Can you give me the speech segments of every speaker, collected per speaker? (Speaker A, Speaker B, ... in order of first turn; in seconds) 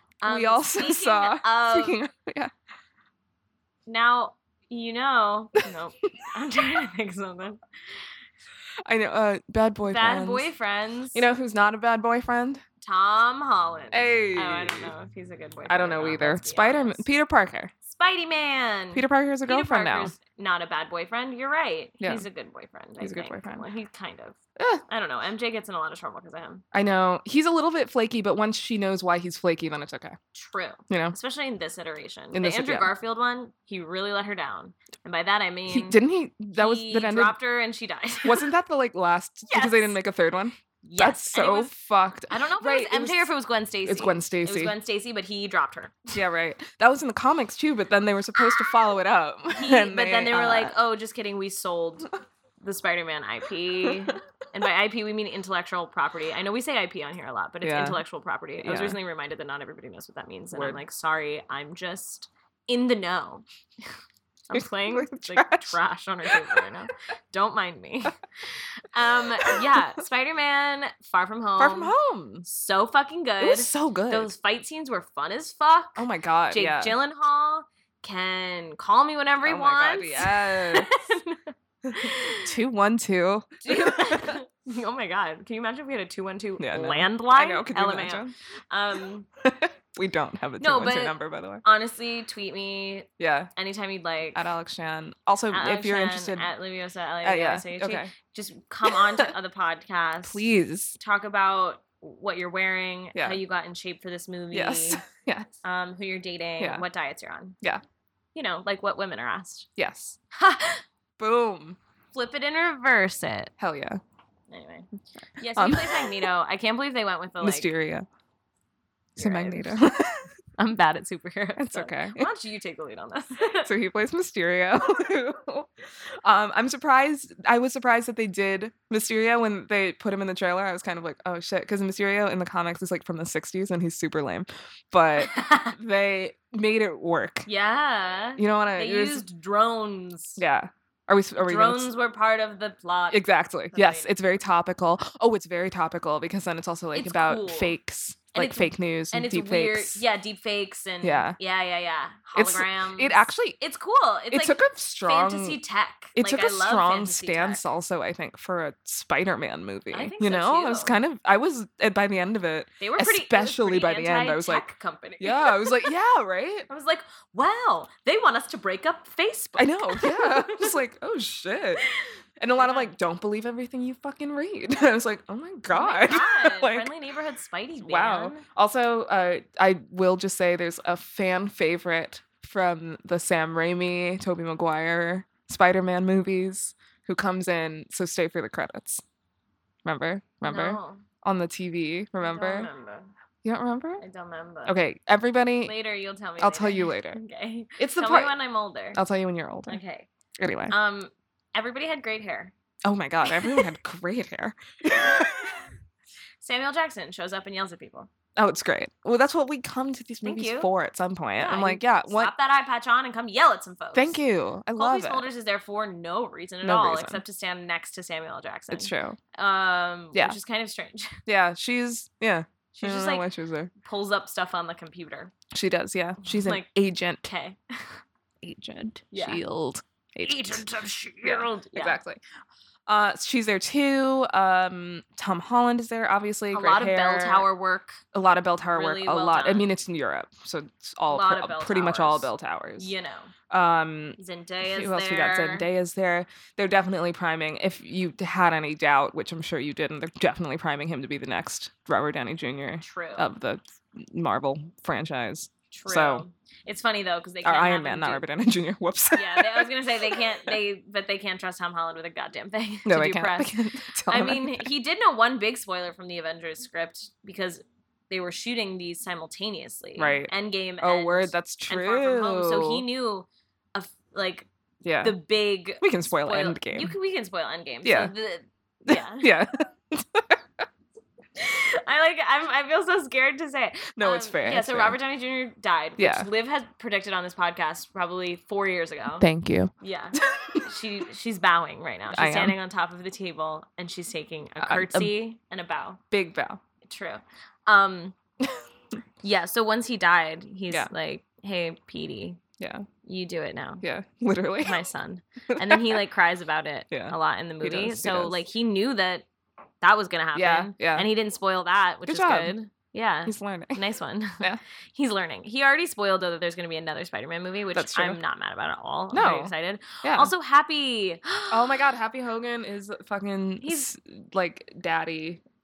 Speaker A: 0.2-2.0, 3.9-7.6, 9.8-11.3, 12.8-17.1, 17.9-26.6, 30.3-36.0, 36.5-38.5, 39.5-40.0, 40.8-41.7, 42.3-46.2, 49.5-63.4, 64.5-68.2, 68.8-72.0, 72.5-82.5, 83.7-89.3, 90.6-94.4, 95.5-105.0, 105.6-107.6, 108.3-109.7, 110.3-110.8, 112.1-113.5, 114.5-117.7, 119.2-119.7, 120.6-123.7, 135.2-135.8, 137.5-140.4, 141.4-144.1, 146.9-147.8, 148.3-157.6, 159.9-161.0, 162.8-165.9, 166.7-170.7, 171.9-172.9, 175.7-178.4, 190.4-191.0, 192.2-193.1, 194.0-194.8, 195.6-199.0, 199.7-200.1, 200.7-202.5, 203.3-203.7, 205.0-205.7, 206.4-208.1, 210.2-210.7, 211.4-214.2, 214.8-221.2, 222.8-223.2, 223.8-225.3, 226.3-226.7, 227.2-228.0, 229.1-229.4, 230.2-232.0, 236.5-238.0, 238.7-239.7, 241.1-243.3, 244.2-245.7, 252.8-253.3, 255.7-258.2, 259.1-263.5, 264.1-274.5, 275.0-279.3, 281.4-289.2, 289.8-296.0, 296.8-298.1, 299.2-302.4, 303.1-303.8, 304.6-309.3, 309.8-321.9, 323.6-323.9
Speaker B: 0.2-2.5, 8.9-10.5, 11.1-12.6, 13.9-14.9, 15.7-17.7, 18.9-20.1, 22.0-22.3, 23.0-23.6, 24.6-24.8, 26.7-30.2, 30.9-31.2, 32.3-32.9, 35.7-37.4, 38.2-43.3, 43.9-44.8, 46.1-50.7, 53.9-54.1, 57.6-58.0, 58.6-59.0, 60.5-60.8, 64.5-66.7, 69.4-69.8, 71.6-72.5, 73.4-74.3, 76.0-77.0, 79.4-80.9, 81.9-84.4, 86.6-88.3, 89.4-91.6, 93.2-93.5, 94.3-96.5, 97.2-98.1, 98.9-99.3, 100.2-101.0, 103.2-103.4, 104.5-105.5, 106.6-106.8, 109.8-110.2, 111.2-111.8, 113.6-114.0, 115.6-116.3, 117.4-118.1, 119.2-120.3, 121.6-122.3, 123.6-125.7, 126.2-137.5, 138.4-139.3, 140.4-141.9, 143.1-150.0, 151.0-151.4, 152.3-153.6, 154.3-155.6, 156.2-164.7, 165.2-166.7, 169.6-171.8, 172.4-176.9, 177.8-189.0, 189.8-192.7, 193.4-194.0, 194.7-195.7, 196.4-197.2, 197.8-198.4, 198.9-199.8, 200.4-200.8, 202.8-205.7, 208.4-212.3, 213.9-215.3, 216.6-217.2, 218.7-219.2, 221.3-223.7, 225.5-227.2, 228.4-230.7, 231.2-232.2, 232.9-237.5, 238.1-242.9, 243.5-256.2, 257.4-260.5, 262.9-264.7, 270.0-272.9, 274.8-275.2, 275.8-276.9, 277.8-278.1, 278.9-280.4, 284.0-285.0, 286.0-286.3, 289.2-290.7, 292.1-292.6, 294.6-295.1, 296.1-296.6, 302.6-302.9, 303.8-304.8, 305.5-306.0, 306.9-308.4, 310.4-311.1, 312.1-312.5, 313.3-313.8, 317.7-318.2, 319.1-319.5, 320.0-320.3, 321.5-325.4